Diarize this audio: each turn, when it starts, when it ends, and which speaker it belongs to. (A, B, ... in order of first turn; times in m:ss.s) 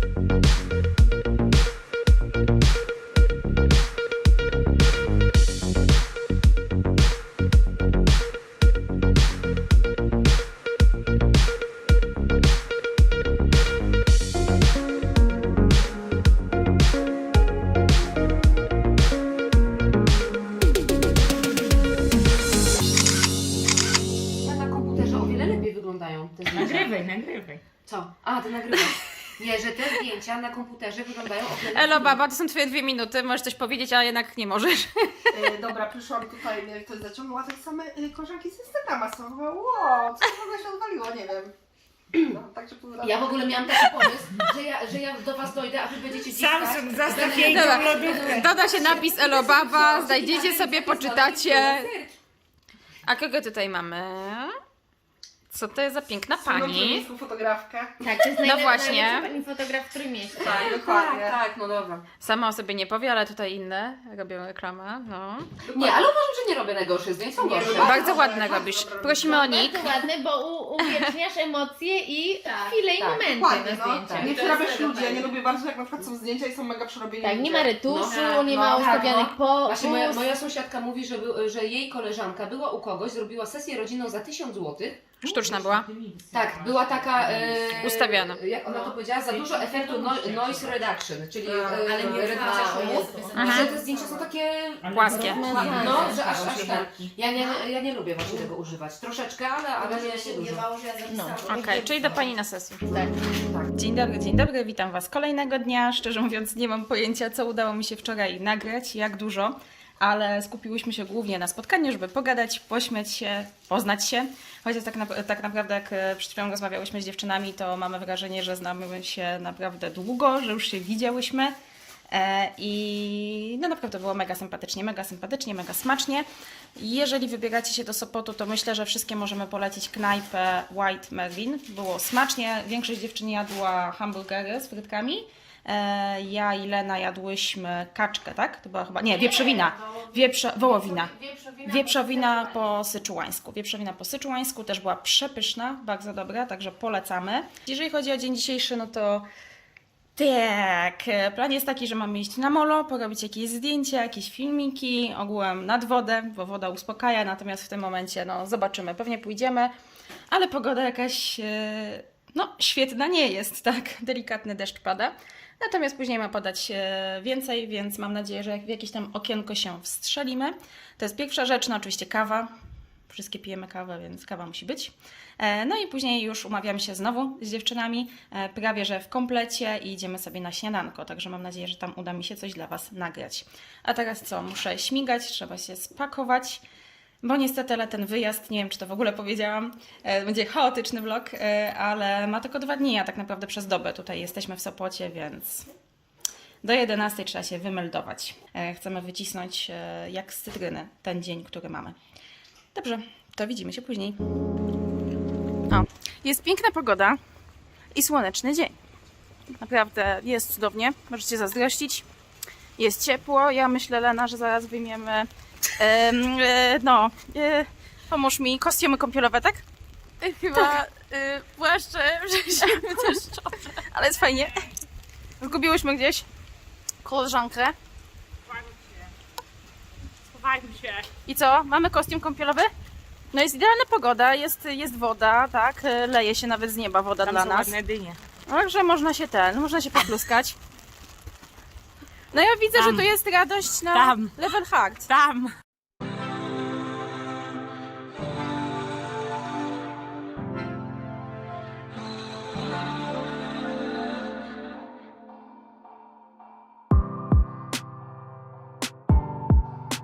0:24.4-0:27.0 A
0:26.5-0:27.6 B
0:27.8-0:32.2 A
0:31.7-0:35.3 C
0:35.3-0:41.5 D
0:42.1-0:43.9 D
0:43.0-0:52.1 A
0:46.2-0:48.6 B
0:47.4-0:51.9 C
0:53.0-0:54.5 C
0:55.5-0:57.1 C
0:56.4-0:57.9 D
0:58.0-1:00.7 E
0:58.4-0:59.3 C
1:00.4-1:01.4 D
1:00.4-1:02.0 A
1:02.2-1:05.5 C
1:05.6-1:06.0 D
1:05.7-1:08.0 A
1:07.4-1:09.6 D
1:07.7-1:10.0 C
1:09.2-1:14.4 E
1:12.4-1:12.7 F
1:13.0-1:14.4 A
1:13.3-1:17.8 D
1:14.2-1:15.2 F
1:17.2-1:20.3 E
1:17.9-1:25.2 A
1:18.1-1:19.0 F
1:25.2-1:25.9 C
1:25.2-1:28.0 B
1:26.3-1:40.7 A
1:27.8-1:28.4 C
1:28.7-1:30.8 B
1:31.8-1:34.3 F
1:32.1-1:33.6 E
1:33.3-1:33.8 C
1:34.8-1:37.1 B
1:34.9-1:35.6 C
1:35.4-1:36.2 E
1:39.8-1:42.3 F
1:41.1-1:41.4 E
1:41.4-1:42.8 C
1:43.3-1:43.6 A
1:43.7-2:01.5 C
2:02.1-2:06.2 C
2:06.8-2:29.3 C
2:19.1-2:22.7 E
2:30.2-2:39.7 C
2:40.3-2:52.5 C
2:53.1-3:06.6 C
3:07.2-3:15.6 C
3:16.6-3:21.9 C
3:22.7-3:24.2 C
3:25.7-3:27.2 C
3:27.9-3:28.7 C
3:29.6-3:32.0 C
3:32.8-3:39.6 C
3:40.2-3:44.5 C
3:42.7-3:43.1 E
3:45.4-3:46.2 C
3:47.0-3:47.7 C
3:48.5-3:49.1 B
3:50.3-3:51.1 B
3:51.2-3:52.7 C
3:53.3-3:57.7 C
3:57.2-3:58.2 B
3:58.5-4:00.6 C
4:02.3-4:05.1 C
4:02.7-4:03.1 B
4:03.9-4:04.3 B
4:05.1-4:05.5 B